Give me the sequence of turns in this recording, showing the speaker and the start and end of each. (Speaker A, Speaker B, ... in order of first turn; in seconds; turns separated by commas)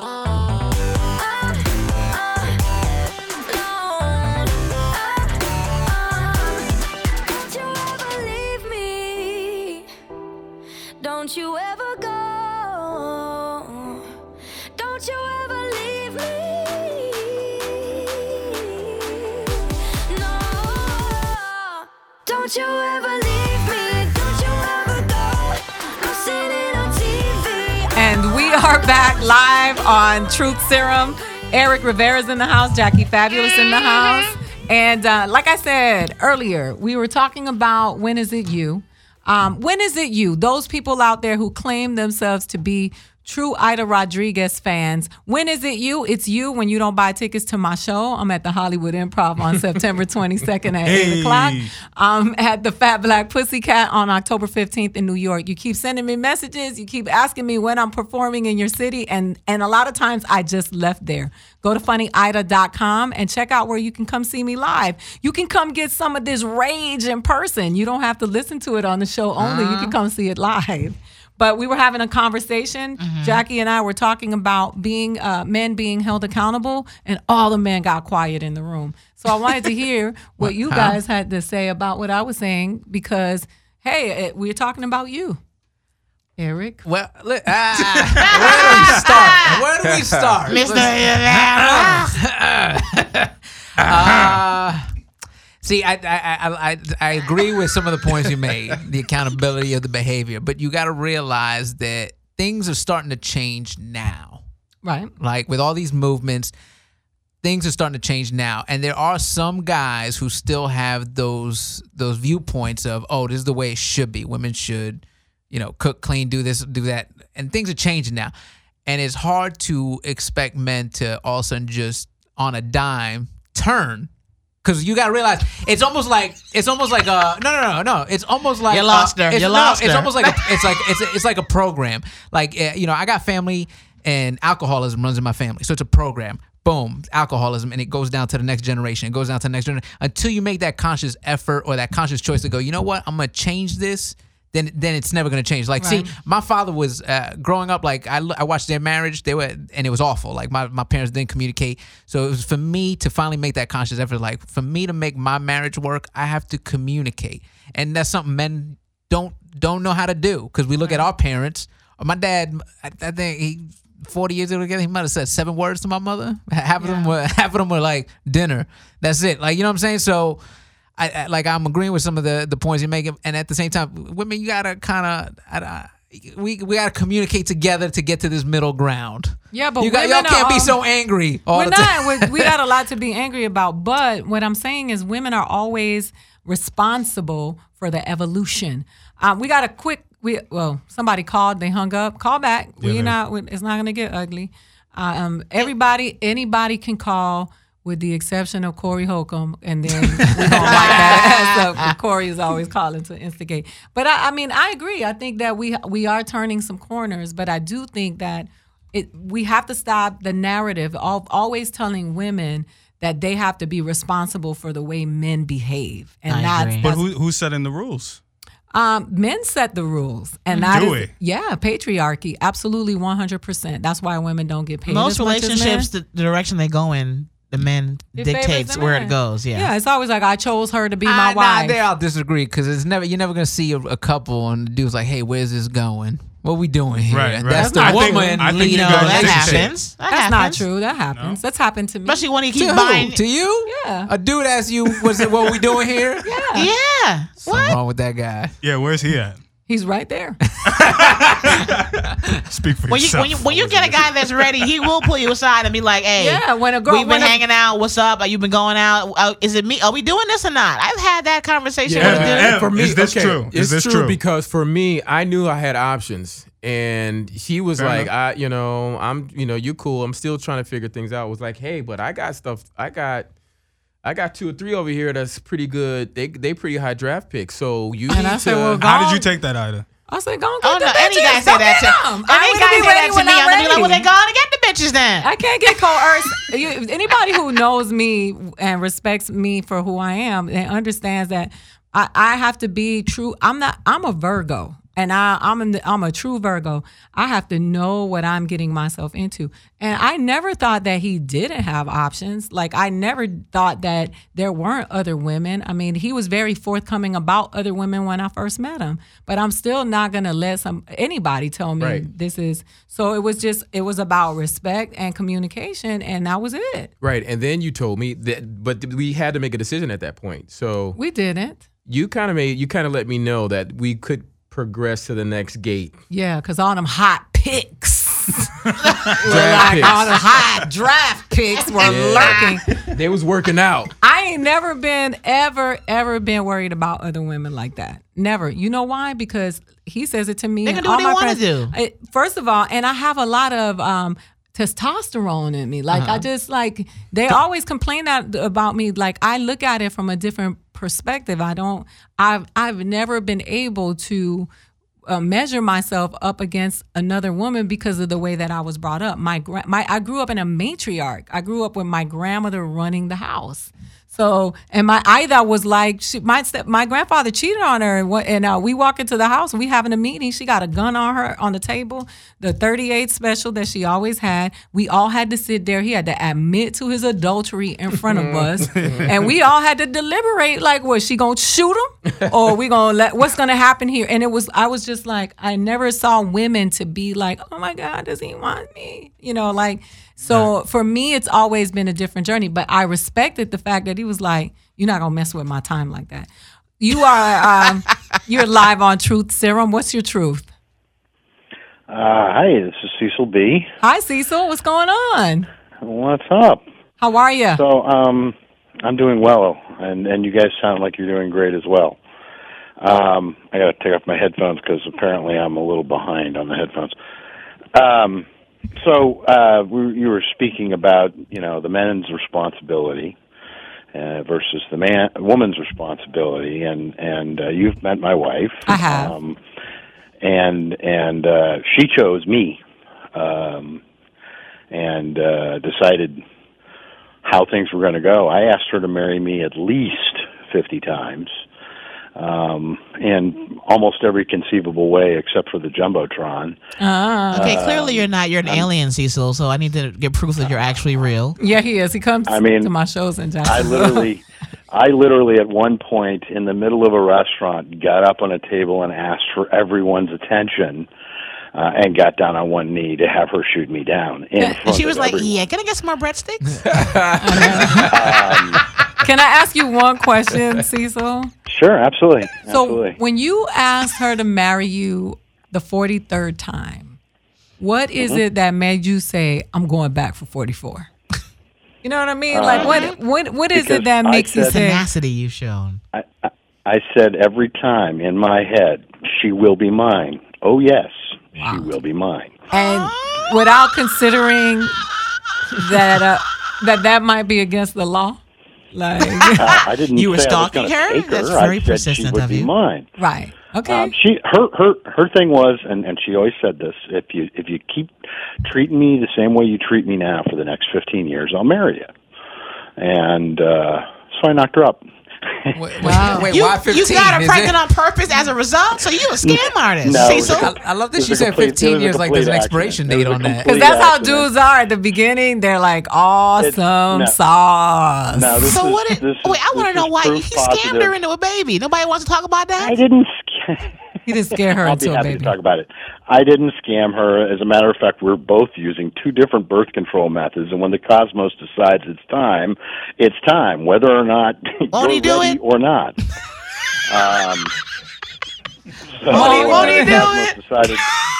Speaker A: 0.9-9.9, Speaker A: 11.0-14.1, Speaker A: 14.8-27.9, Speaker B: 27.9-85.4, Speaker C: 50.8-51.7, Speaker D: 69.4-69.9, Speaker E: 73.0-73.4, Speaker D: 80.4-81.0, Speaker B: 86.4-86.8, Speaker D: 86.8-94.9, Speaker E: 88.3-89.6, Speaker E: 90.5-92.2, Speaker D: 95.6-104.4, Speaker B: 104.8-105.1, Speaker D: 105.2-106.5, Speaker D: 107.4-118.3, Speaker D: 118.9-124.1, Speaker D: 124.6-170.4, Speaker E: 128.7-130.8, Speaker B: 145.8-146.1, Speaker B: 166.8-167.1, Speaker D: 171.0-182.6, Speaker B: 179.5-180.8, Speaker B: 181.5-217.0, Speaker C: 192.8-193.2, Speaker D: 200.5-200.9, Speaker E: 200.6-201.6, Speaker E: 216.3-216.9, Speaker C: 216.8-218.2, Speaker B: 218.7-225.9, Speaker C: 220.7-221.1, Speaker E: 224.9-229.7, Speaker B: 228.2-231.8, Speaker D: 231.1-239.7, Speaker C: 237.1-239.7, Speaker B: 237.5-238.8, Speaker E: 238.5-240.6, Speaker B: 240.1-242.2, Speaker E: 242.1-243.2, Speaker D: 242.5-246.4, Speaker B: 243.7-244.1, Speaker B: 246.2-246.7, Speaker E: 246.6-247.8, Speaker D: 247.4-248.5, Speaker C: 248.6-249.4, Speaker B: 249.7-250.4, Speaker D: 250.6-251.6, Speaker C: 250.7-251.8, Speaker C: 252.4-254.4, Speaker E: 252.9-262.6, Speaker B: 256.2-257.4, Speaker F: 261.9-273.3, Speaker C: 262.0-264.2, Speaker C: 267.8-268.1, Speaker F: 274.0-278.8, Speaker B: 278.1-279.3, Speaker C: 278.8-279.9, Speaker B: 280.1-284.1, Speaker E: 280.6-285.3, Speaker B: 285.2-316.9, Speaker F: 311.8-312.1, Speaker F: 317.0-321.0, Speaker B: 321.0-321.6, Speaker F: 321.9-325.9, Speaker B: 326.1-328.6, Speaker B: 329.2-332.7, Speaker F: 329.2-330.2, Speaker E: 331.6-332.5, Speaker F: 331.8-333.9, Speaker B: 334.0-354.5, Speaker E: 340.6-341.7, Speaker B: 355.1-396.3, Speaker F: 378.1-379.1, Speaker C: 378.7-379.1, Speaker B: 396.8-400.5, Speaker G: 401.9-403.7, Speaker B: 403.8-405.5, Speaker G: 405.8-406.6, Speaker B: 407.0-407.6, Speaker G: 407.5-412.0, Speaker G: 412.8-416.9, Speaker G: 417.8-418.3, Speaker G: 418.8-423.2, Speaker G: 423.9-429.4, Speaker B: 428.7-429.1, Speaker G: 430.2-432.6, Speaker G: 433.1-433.8, Speaker G: 434.7-436.2, Speaker G: 437.2-441.3, Speaker G: 442.2-446.6, Speaker B: 446.8-447.6, Speaker G: 447.3-448.7, Speaker E: 447.4-451.4, Speaker B: 451.4-454.1, Speaker G: 452.3-452.7, Speaker G: 453.4-460.9, Speaker G: 461.6-465.4, Speaker E: 464.6-466.6, Speaker F: 466.7-467.9, Speaker B: 467.2-467.9, Speaker G: 467.9-468.6, Speaker B: 469.0-471.3, Speaker G: 471.5-473.0, Speaker B: 472.5-477.0, Speaker B: 477.6-480.9, Speaker B: 481.8-484.8, Speaker G: 482.3-482.9, Speaker E: 482.5-482.9, Speaker G: 483.5-484.6, Speaker E: 484.5-485.8, Speaker G: 485.9-492.4, Speaker B: 491.4-491.7, Speaker B: 492.5-494.8, Speaker E: 492.6-493.2, Speaker B: 495.5-498.2, Speaker B: 498.7-499.5, Speaker E: 499.2-502.5, Speaker G: 499.4-502.9, Speaker B: 503.0-503.9, Speaker G: 503.7-511.9, Speaker G: 512.8-514.8, Speaker D: 515.6-517.6, Speaker B: 515.8-516.3, Speaker E: 516.3-520.5, Speaker G: 519.2-524.3, Speaker D: 520.2-523.6, Speaker B: 523.5-528.4, Speaker G: 526.4-527.1, Speaker G: 528.1-531.0, Speaker E: 528.5-532.8, Speaker G: 532.6-533.8, Speaker B: 534.1-535.3, Speaker G: 534.5-546.0, Speaker E: 544.7-545.4, Speaker G: 546.9-547.5, Speaker G: 549.0-550.8, Speaker E: 549.1-550.4, Speaker B: 549.1-550.1